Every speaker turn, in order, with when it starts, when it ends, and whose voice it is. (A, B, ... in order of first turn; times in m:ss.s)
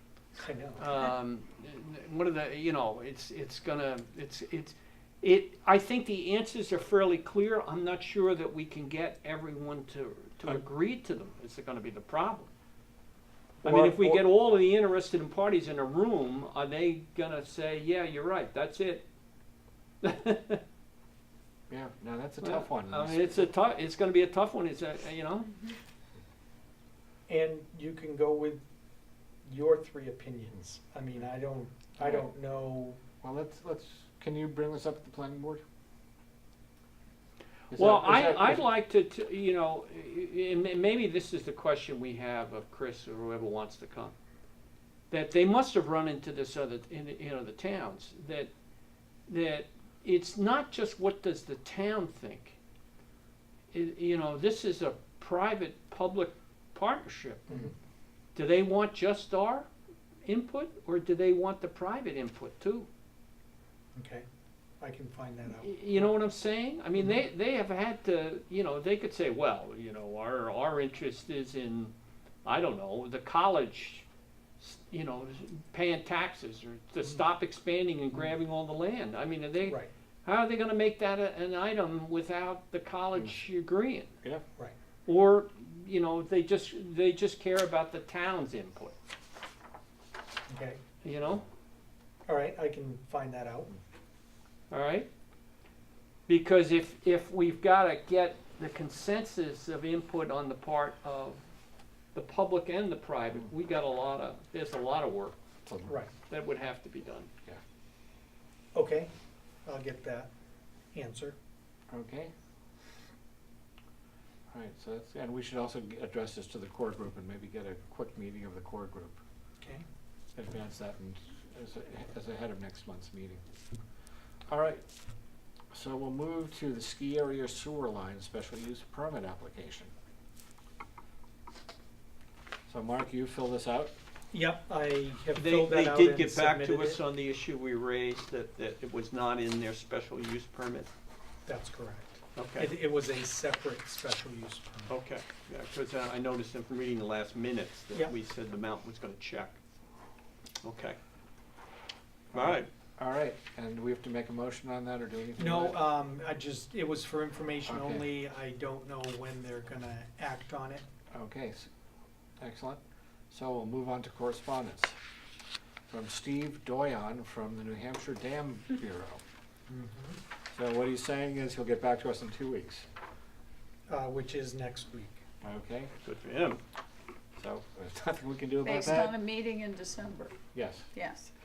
0:00.4-0:00.9 A
0:00.8-0:12.5 B
0:13.6-0:14.2 C
0:13.6-0:19.0 B
0:20.0-0:20.6 B
0:21.7-0:23.5 C
0:22.4-0:25.6 B
0:27.3-0:28.6 A
0:29.4-0:33.0 A
0:32.0-0:32.3 C
0:33.2-0:35.6 C
0:37.7-0:38.7 C
0:37.7-0:44.1 B
0:45.1-0:48.5 B
0:49.3-0:52.6 B
0:53.7-0:57.6 B
0:57.5-0:57.7 A
0:58.3-0:59.7 B
1:00.2-1:02.9 B
1:03.9-1:04.2 A
1:04.8-1:06.1 A
1:05.5-1:11.9 B
1:12.4-1:14.0 B
1:14.6-1:24.1 B
1:25.0-1:28.9 B
1:30.5-1:30.8 A
1:31.0-1:31.4 B
1:32.2-1:33.7 A
1:34.7-1:35.1 B
1:36.3-1:41.4 B
1:42.1-1:45.4 B
1:45.6-1:46.0 C
1:46.3-1:47.3 B
1:48.7-1:49.1 A
1:49.6-1:50.3 A
1:50.9-1:51.4 A
1:51.9-1:52.3 C
1:54.5-1:59.2 C
2:00.3-2:03.4 C
2:04.5-2:04.8 C
2:05.7-2:09.9 C
2:12.7-2:13.9 C
2:14.3-2:17.0 A
2:15.3-2:20.9 B
2:21.4-2:24.9 A
2:22.3-2:22.7 B
2:24.9-2:29.6 B
2:30.6-2:31.0 B
2:32.3-2:35.8 C
2:32.3-2:32.7 B
2:35.4-2:40.8 A
2:37.7-2:38.1 C
2:41.1-2:41.7 C
2:42.4-2:42.8 C
2:43.3-2:45.0 C
2:45.9-2:49.2 C
2:49.7-2:50.2 A
2:50.5-2:52.8 C
2:53.9-2:55.2 A
2:55.4-2:55.9 C
2:56.0-2:56.6 B
2:57.4-2:59.2 C
2:58.6-3:00.4 D
3:00.5-3:00.9 C
3:00.9-3:01.3 D